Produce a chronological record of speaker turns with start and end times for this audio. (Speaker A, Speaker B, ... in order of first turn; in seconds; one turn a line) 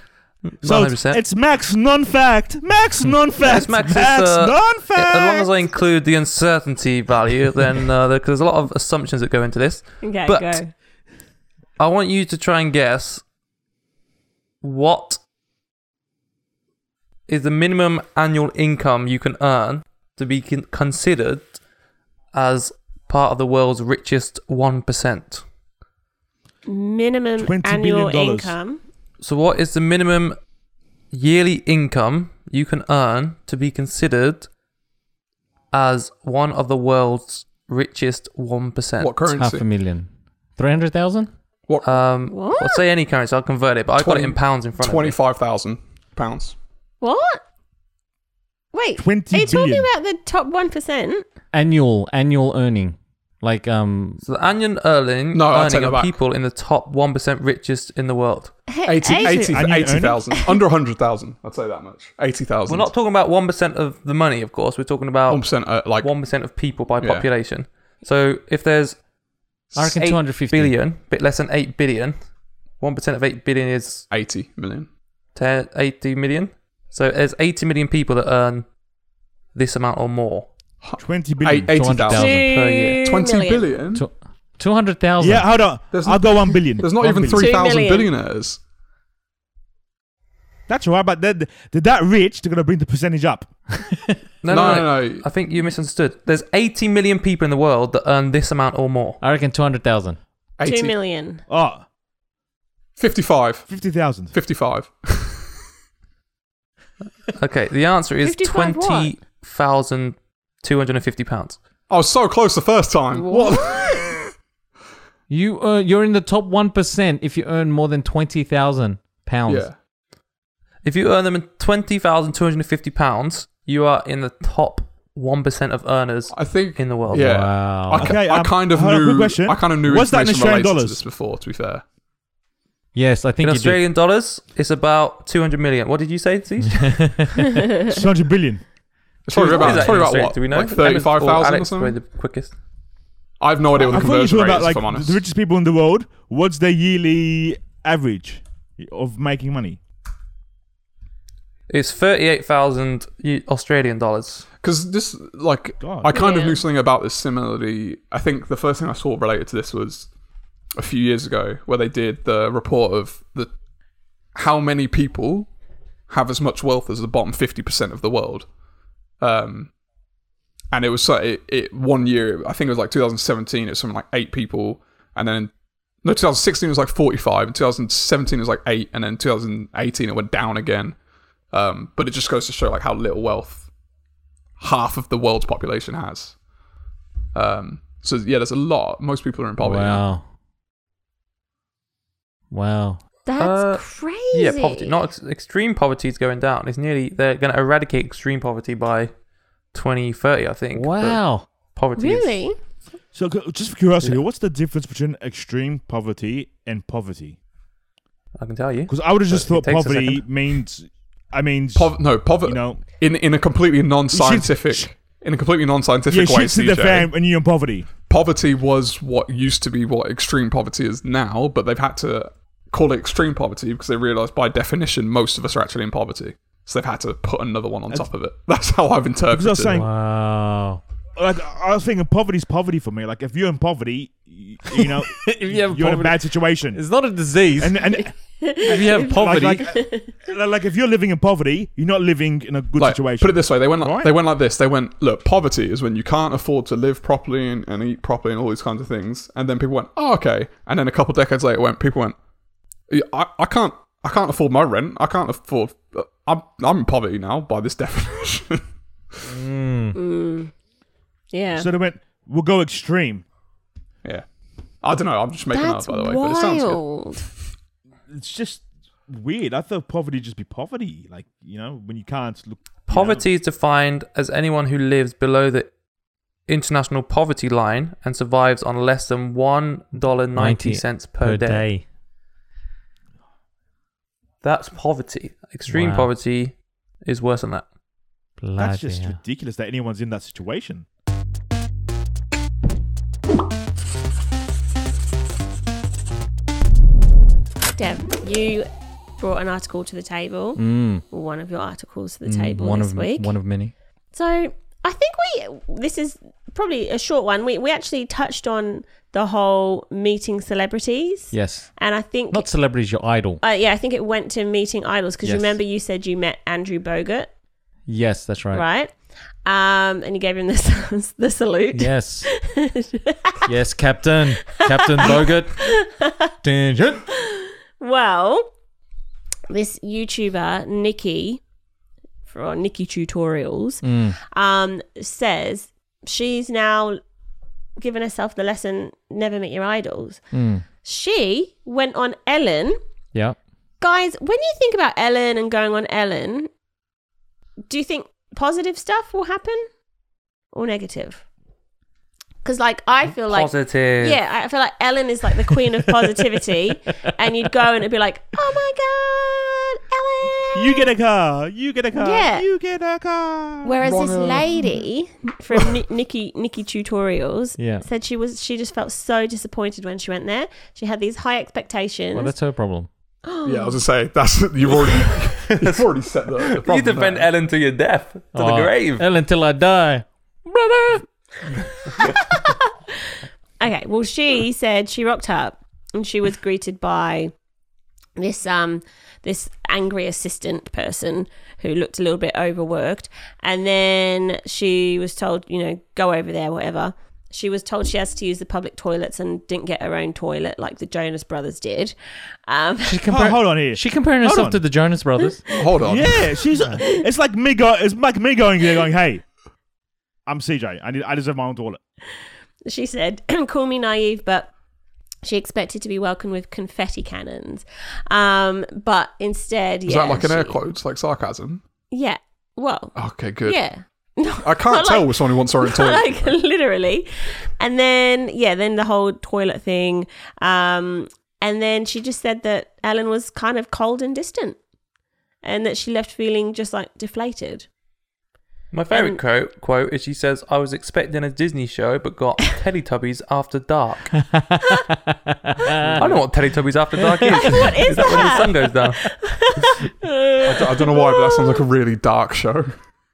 Speaker A: 0.4-1.2
Speaker B: 0.6-5.5
Speaker A: 3.4-10.6
Speaker C: 10.0-10.7
Speaker A: 11.8-13.2
Speaker A: 14.6-15.2
Speaker A: 17.3-21.6
Speaker A: 22.3-25.4
Speaker C: 26.6-28.8
Speaker B: 27.4-28.6
Speaker A: 29.2-30.4
Speaker A: 31.1-34.5
Speaker A: 35.7-39.3
Speaker D: 39.0-39.6
Speaker E: 39.4-41.3
Speaker D: 41.7-42.0
Speaker A: 41.8-45.2
Speaker C: 42.3-42.8
Speaker D: 44.0-46.5
Speaker C: 47.0-47.4
Speaker C: 48.7-51.2
Speaker B: 49.0-49.9
Speaker E: 51.5-54.2
Speaker A: 54.2-58.5
Speaker D: 55.3-56.2
Speaker C: 58.7-59.6
Speaker D: 58.9-62.9
Speaker B: 59.1-60.2
Speaker A: 62.7-69.0
Speaker D: 65.3-66.1
Speaker D: 67.0-67.3
Speaker A: 69.7-72.1
Speaker E: 69.7-70.8
Speaker A: 72.8-74.1
Speaker D: 74.1-74.9
Speaker A: 75.3-78.7
Speaker A: 79.5-80.5
Speaker D: 80.8-82.5
Speaker B: 81.0-82.0
Speaker E: 81.7-82.5
Speaker C: 82.1-83.7
Speaker A: 82.4-83.0
Speaker D: 83.0-84.0
Speaker E: 83.9-85.5
Speaker B: 85.2-87.5
Speaker D: 85.9-88.6
Speaker C: 87.3-88.1
Speaker B: 90.7-93.9
Speaker A: 94.4-99.2
Speaker D: 94.5-95.2
Speaker E: 99.2-100.2
Speaker D: 100.6-100.9
Speaker C: 100.6-101.4
Speaker B: 101.5-101.8
Speaker D: 103.0-103.7
Speaker B: 103.7-104.3
Speaker D: 104.3-105.4
Speaker A: 107.3-111.6
Speaker C: 108.2-109.1
Speaker D: 111.9-114.3
Speaker C: 113.1-114.0
Speaker E: 115.3-119.7
Speaker D: 119.5-119.8
Speaker A: 120.8-127.3
Speaker D: 126.3-131.8
Speaker E: 127.1-128.1
Speaker B: 127.9-131.0
Speaker E: 132.9-133.8
Speaker A: 133.4-137.2
Speaker E: 136.8-137.4
Speaker B: 137.8-138.6
Speaker D: 139.2-141.9
Speaker A: 139.3-142.5
Speaker B: 139.3-140.0
Speaker D: 143.4-145.2
Speaker B: 143.7-149.8
Speaker A: 151.7-154.5
Speaker D: 154.6-160.1
Speaker B: 155.8-156.1
Speaker C: 156.1-156.6
Speaker D: 160.8-163.5
Speaker D: 164.3-165.5
Speaker D: 166.1-168.5
Speaker D: 169.2-169.7
Speaker D: 170.7-175.5
Speaker D: 176.0-180.9
Speaker D: 181.5-183.7
Speaker D: 184.6-186.3
Speaker D: 187.3-190.0
Speaker E: 189.6-190.2
Speaker E: 192.5-193.0
Speaker C: 193.2-195.0
Speaker A: 193.4-199.1
Speaker A: 199.7-202.4
Speaker E: 200.7-201.5
Speaker C: 201.9-202.6
Speaker B: 203.1-207.4
Speaker A: 208.4-210.2
Speaker B: 208.9-212.8
Speaker D: 211.7-217.1
Speaker B: 214.1-214.9
Speaker B: 216.1-217.9
Speaker D: 218.1-229.8
Speaker B: 229.3-229.9
Speaker E: 229.7-230.8
Speaker B: 231.2-236.8
Speaker E: 235.2-237.8
Speaker B: 237.6-244.1
Speaker C: 238.4-240.1
Speaker E: 238.7-239.7
Speaker D: 242.8-252.2
Speaker D: 252.9-258.6
Speaker E: 259.2-260.0
Speaker C: 259.9-260.5
Speaker C: 261.3-261.7
Speaker B: 261.5-263.2
Speaker D: 264.8-266.8
Speaker C: 265.5-267.3
Speaker B: 268.1-273.2
Speaker A: 272.9-275.7
Speaker A: 276.5-281.7
Speaker E: 280.3-281.8
Speaker A: 284.4-287.6
Speaker E: 285.7-286.1
Speaker E: 288.4-289.2
Speaker B: 288.6-290.9
Speaker C: 297.7-303.3
Speaker E: 300.6-301.0
Speaker E: 302.2-303.7
Speaker C: 304.1-312.5
Speaker E: 311.3-311.8
Speaker E: 312.3-313.4
Speaker C: 313.4-317.3
Speaker E: 315.2-315.6
Speaker E: 317.9-318.6
Speaker C: 318.5-323.5
Speaker E: 321.7-322.3
Speaker E: 323.4-325.6
Speaker C: 324.5-326.3
Speaker E: 326.4-327.1
Speaker C: 327.2-328.5
Speaker C: 329.5-331.4
Speaker C: 332.3-337.0
Speaker E: 333.8-334.2
Speaker C: 337.8-340.2
Speaker E: 340.3-340.6
Speaker C: 340.8-342.8
Speaker C: 343.8-346.5
Speaker C: 347.7-349.7
Speaker C: 350.5-351.2
Speaker C: 352.4-360.9
Speaker A: 353.3-354.2
Speaker B: 360.5-363.7
Speaker C: 362.0-362.5
Speaker C: 363.6-372.3
Speaker D: 363.8-364.6
Speaker E: 367.6-367.8
Speaker E: 372.1-372.9
Speaker C: 373.2-373.8
Speaker D: 373.4-377.3
Speaker A: 375.5-379.0
Speaker E: 378.3-380.9
Speaker C: 382.1-387.3
Speaker C: 388.1-401.9
Speaker C: 402.4-403.0
Speaker E: 402.8-405.4
Speaker B: 403.1-404.6
Speaker D: 405.5-406.4
Speaker B: 405.8-409.2
Speaker C: 406.6-406.9
Speaker B: 410.2-411.8
Speaker C: 412.1-414.5
Speaker C: 415.2-420.6
Speaker D: 419.9-421.6
Speaker C: 421.9-434.6
Speaker D: 422.9-423.6
Speaker D: 424.4-426.3
Speaker C: 435.4-437.6
Speaker A: 438.7-444.2
Speaker C: 438.9-439.2
Speaker E: 445.1-446.2
Speaker A: 446.0-449.2
Speaker C: 447.2-451.6
Speaker D: 450.4-452.7